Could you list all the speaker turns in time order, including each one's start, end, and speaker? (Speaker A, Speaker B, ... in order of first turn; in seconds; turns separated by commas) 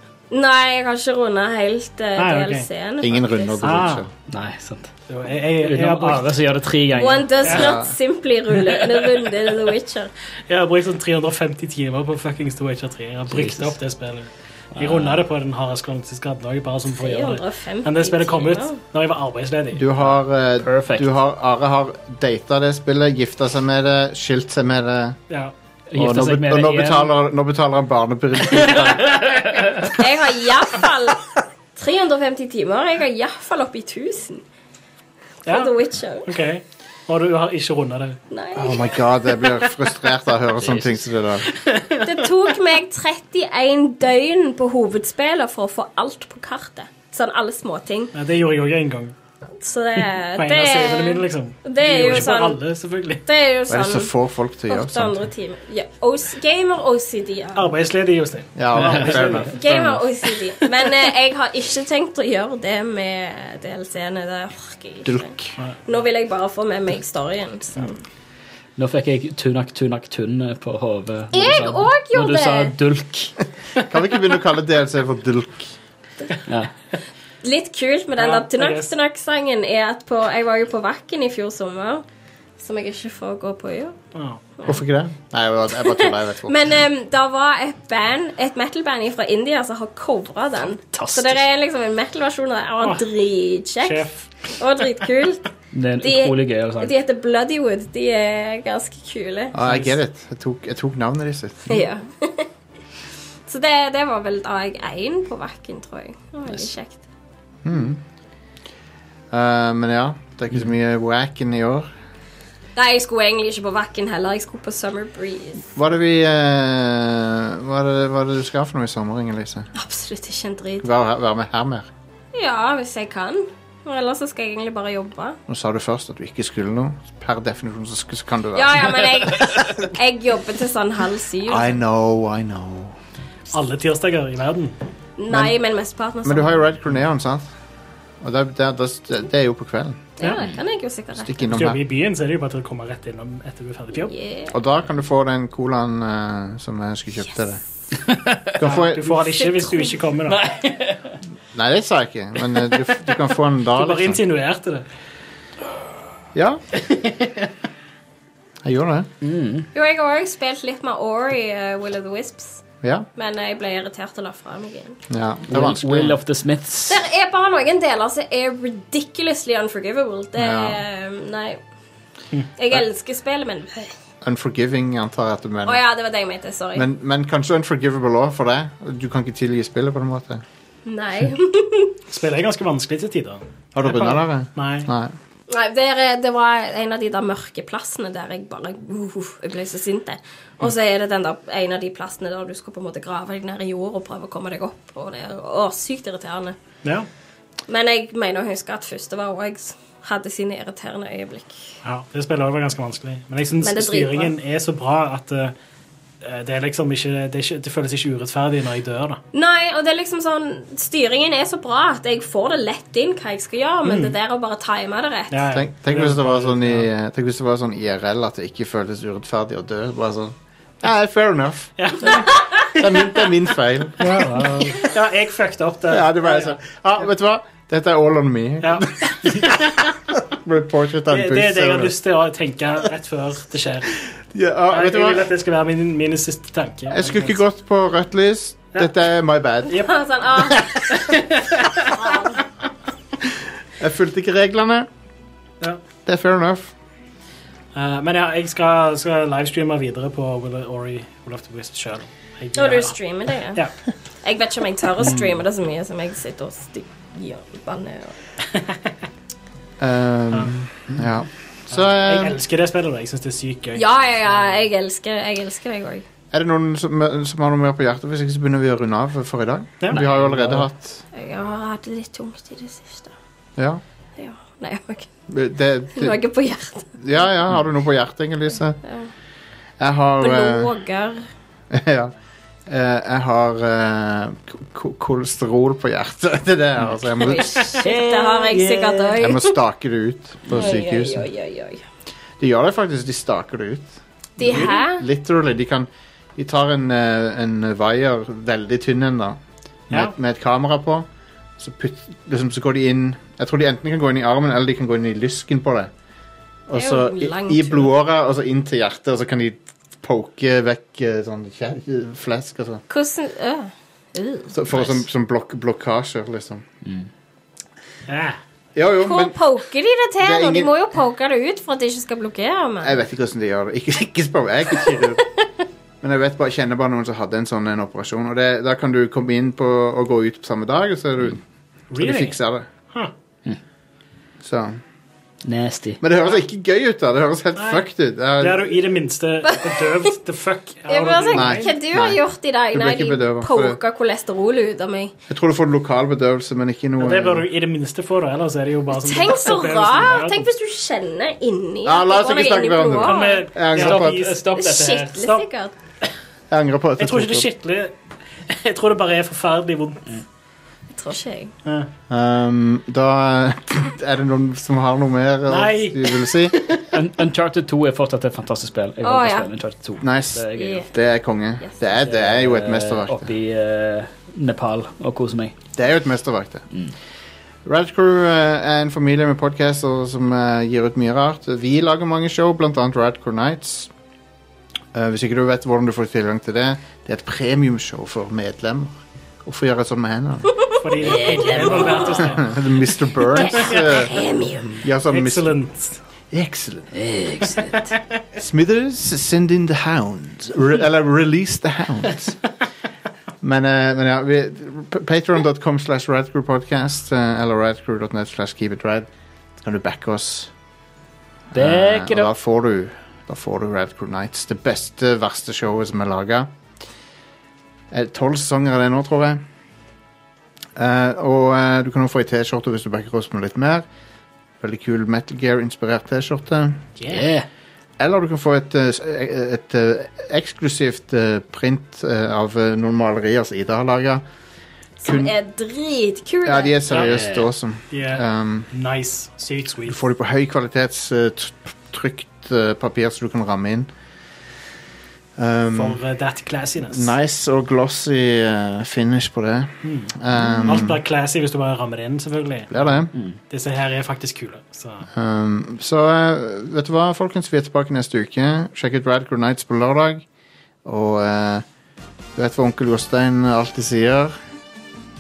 Speaker A: 0.3-3.8, Speaker B: 2.2-2.7, Speaker C: 3.0-4.1, Speaker B: 3.6-4.1, Speaker D: 4.3-4.9, Speaker B: 5.1-6.4, Speaker D: 5.6-7.5, Speaker A: 7.0-10.1, Speaker C: 7.5-8.0, Speaker B: 10.5-19.9, Speaker D: 13.3-13.7, Speaker D: 14.8-15.2, Speaker A: 16.9-18.8, Speaker C: 19.7-25.2, Speaker D: 20.6-21.1, Speaker D: 25.9-27.1, Speaker C: 25.9-29.3, Speaker D: 28.6-29.9, Speaker A: 29.9-34.4, Speaker A: 35.5-36.4, Speaker B: 35.5-35.7, Speaker B: 36.3-38.2, Speaker A: 38.3-38.9, Speaker C: 38.6-41.5, Speaker D: 40.6-41.1, Speaker B: 41.5-42.1, Speaker A: 42.0-48.1, Speaker B: 48.1-49.1, Speaker A: 49.6-52.6, Speaker B: 50.4-53.2, Speaker A: 53.3-54.1, Speaker C: 53.7-55.2, Speaker A: 54.7-57.7, Speaker B: 57.5-59.5, Speaker C: 58.5-60.1, Speaker A: 59.5-65.3, Speaker C: 65.0-65.5, Speaker A: 65.8-68.0, Speaker D: 68.8-73.3, Speaker A: 71.3-72.8, Speaker C: 73.9-75.8, Speaker A: 77.4-82.0, Speaker B: 78.2-78.9, Speaker A: 82.6-84.0, Speaker B: 84.2-84.4, Speaker A: 84.6-84.8, Speaker C: 84.7-86.7, Speaker A: 85.7-95.4, Speaker D: 90.7-91.4, Speaker B: 93.8-94.3, Speaker D: 95.7-96.9, Speaker A: 96.0-99.6, Speaker C: 99.5-101.8, Speaker B: 99.6-99.9, Speaker A: 101.7-102.5, Speaker A: 103.5-107.0, Speaker C: 107.6-108.0, Speaker C: 109.3-111.9, Speaker A: 112.8-115.7, Speaker C: 115.8-119.7, Speaker A: 119.8-120.9, Speaker C: 120.8-121.9, Speaker A: 122.3-125.4, Speaker C: 125.5-129.9, Speaker A: 128.5-131.8, Speaker C: 131.5-133.0, Speaker B: 133.5-134.8, Speaker A: 135.2-136.6, Speaker C: 135.3-135.5, Speaker C: 136.2-137.5, Speaker C: 138.2-140.2, Speaker A: 140.2-141.6, Speaker C: 141.2-141.8, Speaker B: 141.5-144.1, Speaker A: 144.0-144.6, Speaker C: 144.5-147.6, Speaker D: 148.0-148.6, Speaker C: 148.6-149.1, Speaker B: 148.6-150.4, Speaker A: 149.3-150.0, Speaker D: 150.3-151.2, Speaker C: 151.5-154.2, Speaker B: 153.7-154.8, Speaker C: 156.3-156.6, Speaker B: 156.9-157.4, Speaker C: 158.6-159.1, Speaker D: 159.2-159.7, Speaker A: 159.7-162.7, Speaker C: 162.8-163.1, Speaker A: 163.2-165.0, Speaker C: 165.1-166.2, Speaker D: 165.5-167.0, Speaker A: 166.9-171.6, Speaker C: 170.4-170.8, Speaker A: 172.6-173.9, Speaker C: 174.2-175.8, Speaker A: 175.7-176.9, Speaker C: 176.7-180.4, Speaker A: 180.9-182.0, Speaker B: 182.1-184.9, Speaker C: 183.8-185.2, Speaker A: 185.5-196.6, Speaker A: 197.7-201.6, Speaker B: 201.8-205.5, Speaker A: 203.6-204.3, Speaker B: 206.2-209.2, Speaker A: 209.3-215.5, Speaker B: 213.8-214.2, Speaker B: 215.3-216.9, Speaker C: 215.5-222.2, Speaker B: 221.8-223.3, Speaker C: 222.8-224.1, Speaker B: 224.0-226.6, Speaker D: 224.1-224.7, Speaker C: 225.9-229.6, Speaker B: 228.6-229.7, Speaker C: 230.3-231.9, Speaker B: 231.1-233.9, Speaker C: 234.3-235.3, Speaker B: 234.7-237.4, Speaker C: 236.9-239.9, Speaker A: 239.7-241.0, Speaker B: 241.0-241.8, Speaker A: 241.9-242.4, Speaker C: 243.8-244.9, Speaker C: 246.1-246.7, Speaker B: 247.8-253.0, Speaker A: 252.6-253.6, Speaker A: 254.2-258.2, Speaker D: 255.0-255.4, Speaker C: 259.8-262.4, Speaker B: 261.7-263.8, Speaker A: 263.8-266.1, Speaker C: 266.3-271.0, Speaker D: 269.9-270.6, Speaker A: 271.1-273.1, Speaker C: 273.6-273.8, Speaker A: 274.2-275.1, Speaker C: 275.3-276.2, Speaker A: 275.9-277.0, Speaker C: 277.0-278.8, Speaker A: 278.8-279.1, Speaker C: 279.8-280.7, Speaker A: 280.2-281.3, Speaker C: 281.7-282.1, Speaker C: 282.7-287.6, Speaker A: 287.2-289.6, Speaker D: 287.8-289.1, Speaker C: 289.2-291.3, Speaker A: 290.5-291.8, Speaker C: 292.4-299.4, Speaker A: 294.4-295.1, Speaker C: 299.9-301.1, Speaker C: 301.6-305.9, Speaker C: 306.7-312.8, Speaker A: 306.8-307.9, Speaker A: 312.9-314.6, Speaker C: 314.5-316.6, Speaker B: 318.1-318.4, Speaker C: 318.8-319.4, Speaker A: 319.0-323.0, Speaker C: 320.2-320.7, Speaker C: 322.8-325.2, Speaker C: 326.0-331.4, Speaker B: 331.9-332.4, Speaker C: 332.0-332.7, Speaker C: 334.4-334.8, Speaker D: 335.4-336.0, Speaker C: 336.0-338.8, Speaker B: 337.6-337.9, Speaker B: 338.4-341.7, Speaker A: 339.5-340.1, Speaker A: 340.9-345.1, Speaker C: 341.3-342.2, Speaker C: 342.7-343.8, Speaker C: 345.3-347.5, Speaker B: 347.0-350.4, Speaker A: 348.9-353.5, Speaker C: 351.9-354.3, Speaker B: 353.0-354.3, Speaker D: 353.7-355.2, Speaker A: 354.5-355.7, Speaker B: 355.2-355.4, Speaker C: 356.5-357.5, Speaker B: 357.0-357.9, Speaker B: 358.5-360.1, Speaker A: 360.9-361.5, Speaker C: 362.1-366.6, Speaker B: 365.5-366.8, Speaker D: 366.9-370.9, Speaker A: 369.0-369.5, Speaker C: 370.0-373.3, Speaker A: 370.6-370.9, Speaker A: 371.6-371.9, Speaker D: 372.0-375.6, Speaker C: 375.8-376.6, Speaker C: 377.6-383.9, Speaker C: 384.9-390.7, Speaker B: 390.8-392.6, Speaker D: 391.0-392.2, Speaker A: 391.1-392.2, Speaker C: 392.2-395.6, Speaker A: 393.4-394.6, Speaker B: 395.1-396.0, Speaker C: 396.3-396.9, Speaker D: 396.9-397.9, Speaker C: 398.4-402.4, Speaker C: 403.4-410.5, Speaker C: 411.5-416.5, Speaker D: 411.5-412.3, Speaker C: 417.9-419.4, Speaker C: 420.8-423.9, Speaker C: 424.6-426.8, Speaker B: 427.0-427.2, Speaker D: 427.1-427.5, Speaker C: 428.0-434.2, Speaker A: 435.0-436.9, Speaker C: 435.0-435.3, Speaker C: 436.4-438.7, Speaker D: 436.9-437.5, Speaker B: 437.9-440.0, Speaker C: 439.9-443.9, Speaker C: 445.4-446.0, Speaker B: 445.7-447.1, Speaker C: 446.8-451.0, Speaker B: 449.8-455.1, Speaker C: 452.7-453.1, Speaker C: 455.1-460.2, Speaker C: 460.8-461.6, Speaker C: 462.4-464.4